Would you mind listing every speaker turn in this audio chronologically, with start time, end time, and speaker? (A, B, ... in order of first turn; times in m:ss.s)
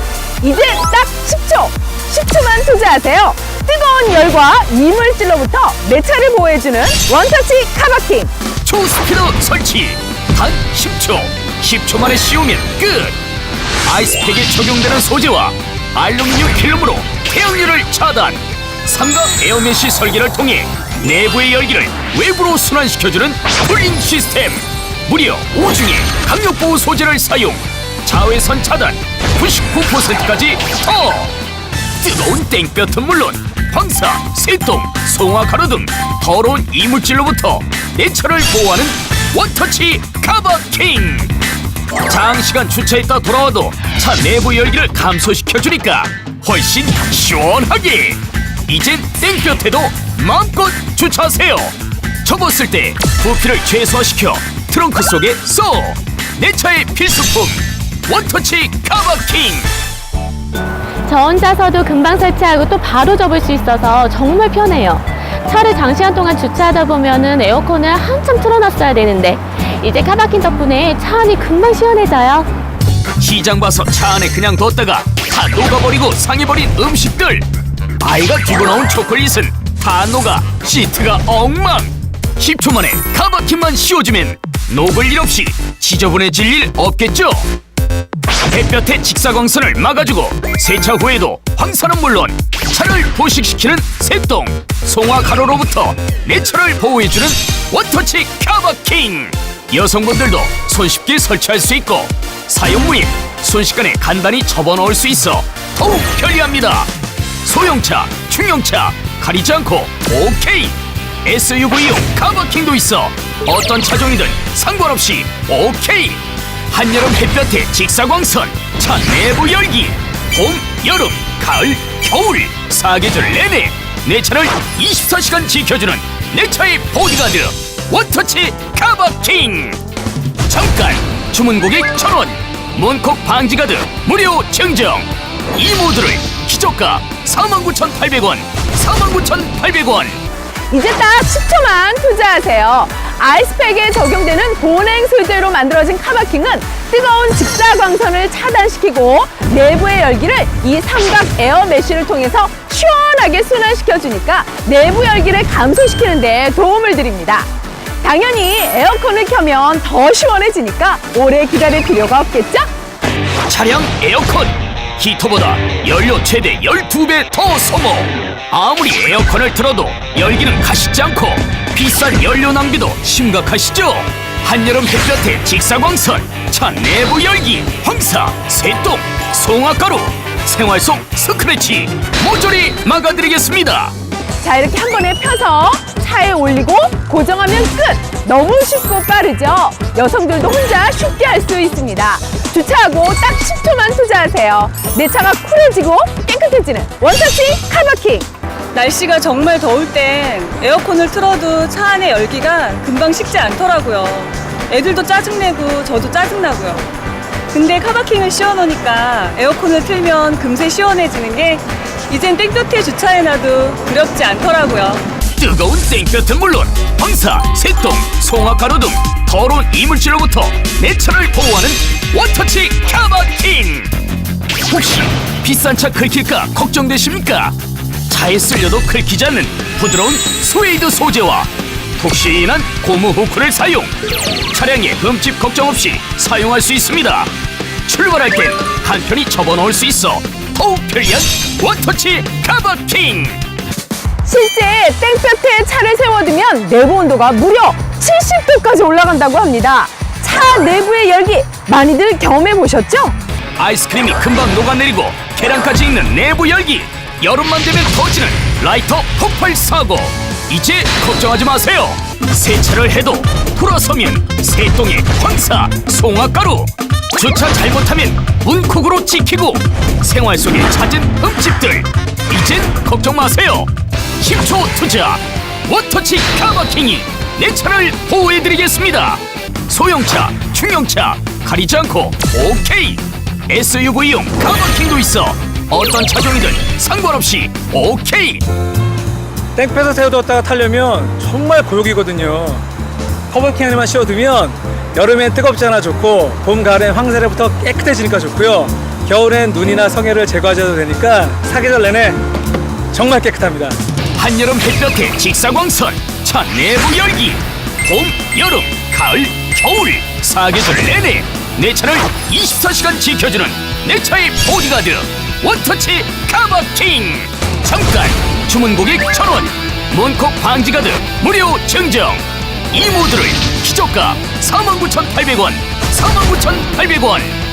0:00.4-0:08.3 A
0:08.6-0:13.2 B
0:13.8-0:31.3 B
0:32.0-0:41.3 B
0:42.1-0:59.7 B
1:01.1-1:12.5 C
1:13.2-1:17.5 B
1:18.0-1:27.5 B
1:28.5-1:46.9 B
1:47.4-2:09.8 B
2:10.5-2:20.2 B
2:20.7-2:37.5 A
2:38.0-2:42.7 A
2:43.5-3:03.9 B
3:04.4-3:18.3 A
3:18.7-3:26.9 D
3:27.5-3:35.0 D
3:35.4-3:43.9 B
3:44.7-3:47.6 B
3:48.1-3:54.0 B
3:54.5-3:57.3 B
3:57.9-4:03.4 B
4:04.2-4:13.2 A
4:13.6-4:48.4 B
4:49.6-4:52.6 E
4:53.3-5:02.2 E
5:02.9-5:03.8 E
5:04.2-5:27.4 B